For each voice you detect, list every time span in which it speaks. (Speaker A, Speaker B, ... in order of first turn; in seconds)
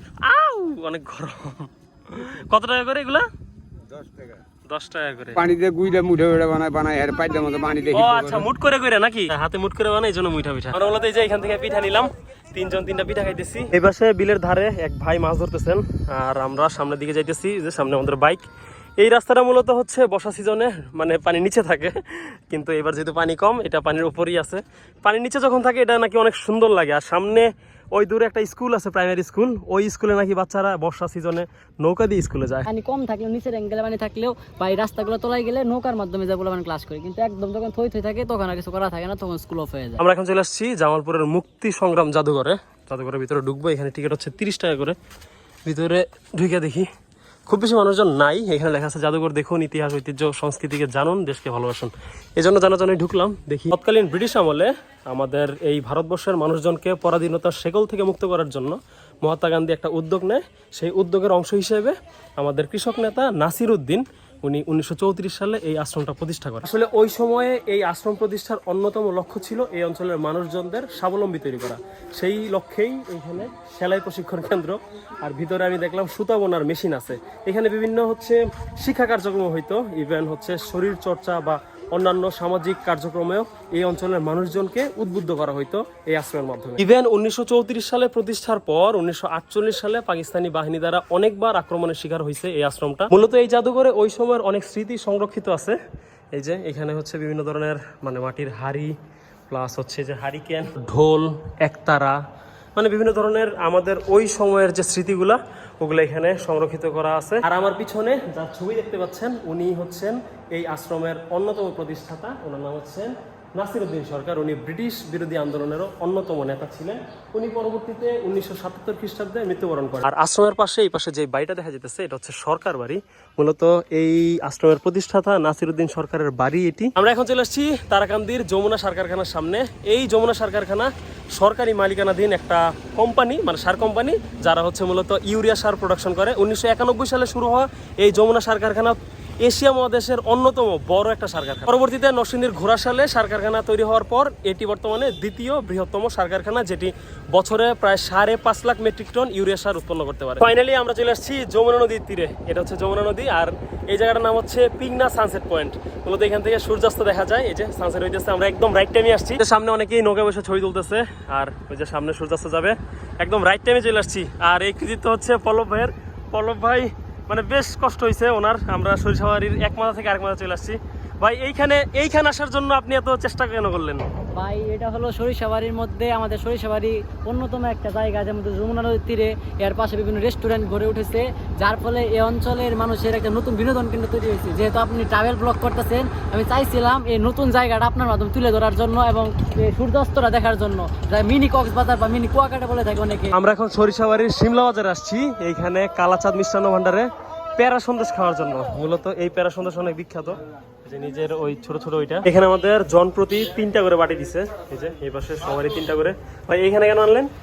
Speaker A: 0.2-3.2, 4.7-5.5, 7.9-18.4, 19.0-32.7, 40.0-45.0, 45.6-46.9, 47.5-95.8, 96.3-98.9, 99.5-102.2, 102.8-174.0, 193.3-207.3
Speaker B: 4.0-4.4, 5.4-8.5
Speaker C: 32.7-40.0, 174.3-193.3